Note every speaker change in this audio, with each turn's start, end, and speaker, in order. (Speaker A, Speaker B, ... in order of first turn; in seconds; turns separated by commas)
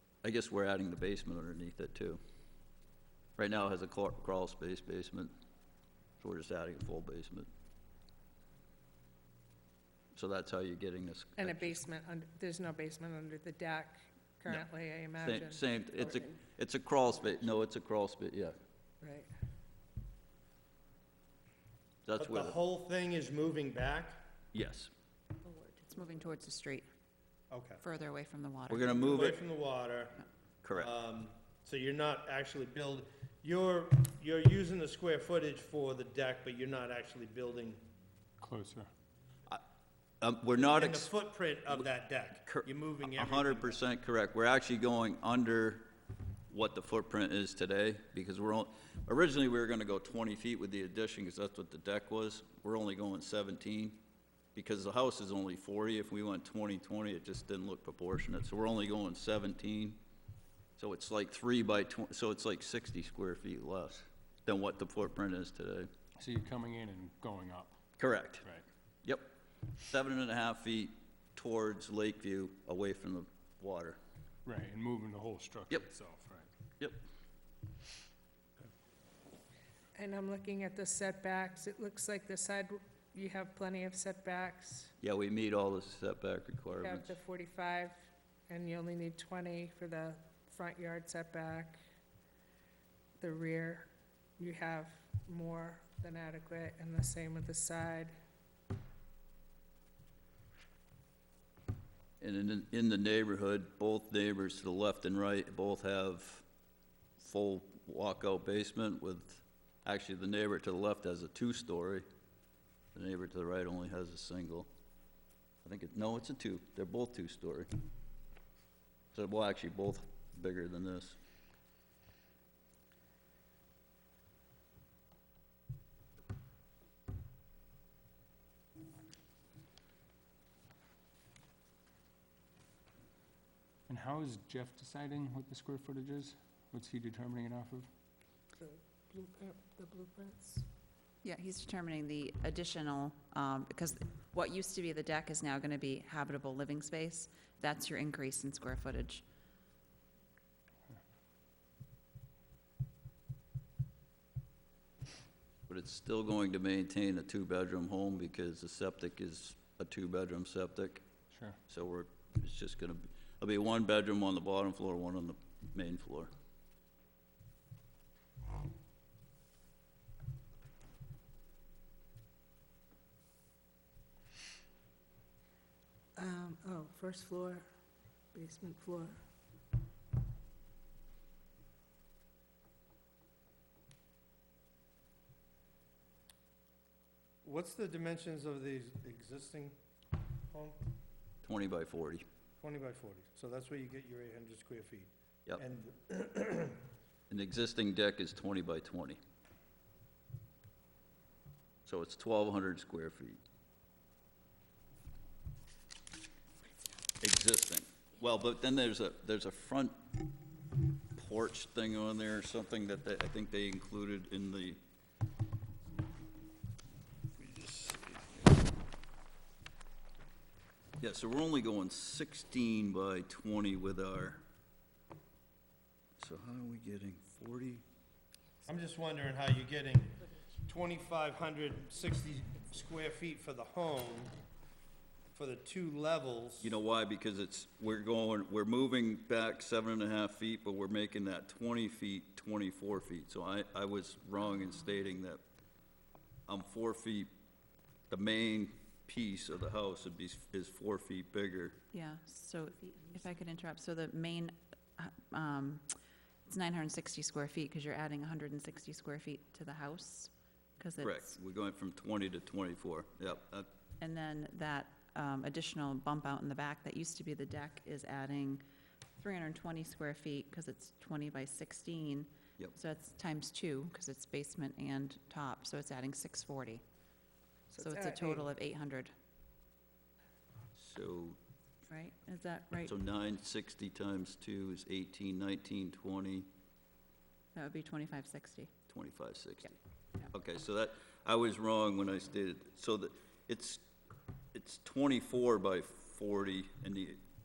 Speaker A: 0.2-2.2, Speaker A: 3.4-5.3, Speaker A: 6.2-7.5, Speaker A: 10.1-11.8, Speaker B: 11.4-15.6, Speaker A: 14.5-18.6, Speaker B: 19.0-19.3, Speaker A: 22.0-22.6, Speaker C: 22.2-24.2, Speaker A: 24.5-24.9, Speaker D: 25.9-26.9, Speaker C: 27.5-27.8, Speaker D: 27.8-28.9, Speaker A: 28.7-29.4, Speaker C: 28.8-30.2, Speaker A: 30.6-30.9, Speaker C: 30.7-37.8, Speaker E: 38.4-38.9, Speaker A: 40.2-41.1, Speaker C: 40.5-43.8, Speaker A: 42.5-45.9, Speaker A: 46.5-54.0, Speaker A: 54.5-60.0, Speaker A: 60.8-65.9, Speaker E: 66.2-67.8, Speaker A: 68.0-68.4, Speaker A: 69.0-69.3, Speaker A: 69.8-74.0, Speaker E: 74.5-76.5, Speaker B: 79.9-84.9, Speaker A: 85.0-87.2, Speaker B: 86.8-91.8, Speaker B: 93.2-98.1, Speaker A: 102.2-106.4, Speaker A: 107.2-112.0, Speaker A: 112.9-114.7, Speaker A: 115.6-117.7, Speaker A: 119.1-121.2, Speaker E: 133.9-137.9, Speaker B: 138.5-140.7, Speaker D: 141.2-149.2, Speaker A: 155.7-161.0, Speaker A: 161.7-166.3, Speaker B: 176.2-177.7, Speaker B: 178.3-179.2, Speaker C: 187.4-189.8, Speaker C: 190.5-190.8, Speaker A: 191.4-192.2, Speaker C: 192.6-196.8, Speaker A: 197.3-199.2, Speaker A: 201.8-203.4, Speaker A: 207.2-210.0, Speaker A: 211.1-214.8, Speaker A: 217.4-218.6, Speaker A: 221.0-224.4, Speaker A: 226.2-227.8, Speaker C: 228.7-234.3, Speaker C: 235.3-236.8, Speaker A: 236.6-245.4, Speaker A: 246.5-247.3, Speaker A: 248.1-251.8, Speaker D: 251.9-255.9, Speaker D: 256.4-261.3, Speaker A: 261.0-263.7, Speaker D: 264.0-268.6, Speaker D: 269.2-276.8, Speaker B: 277.7-278.5, Speaker D: 277.8-279.1, Speaker A: 280.7-281.4, Speaker D: 281.9-282.9, Speaker A: 282.8-286.5, Speaker D: 287.5-288.7, Speaker A: 288.9-289.7, Speaker A: 290.3-293.8, Speaker A: 294.5-297.2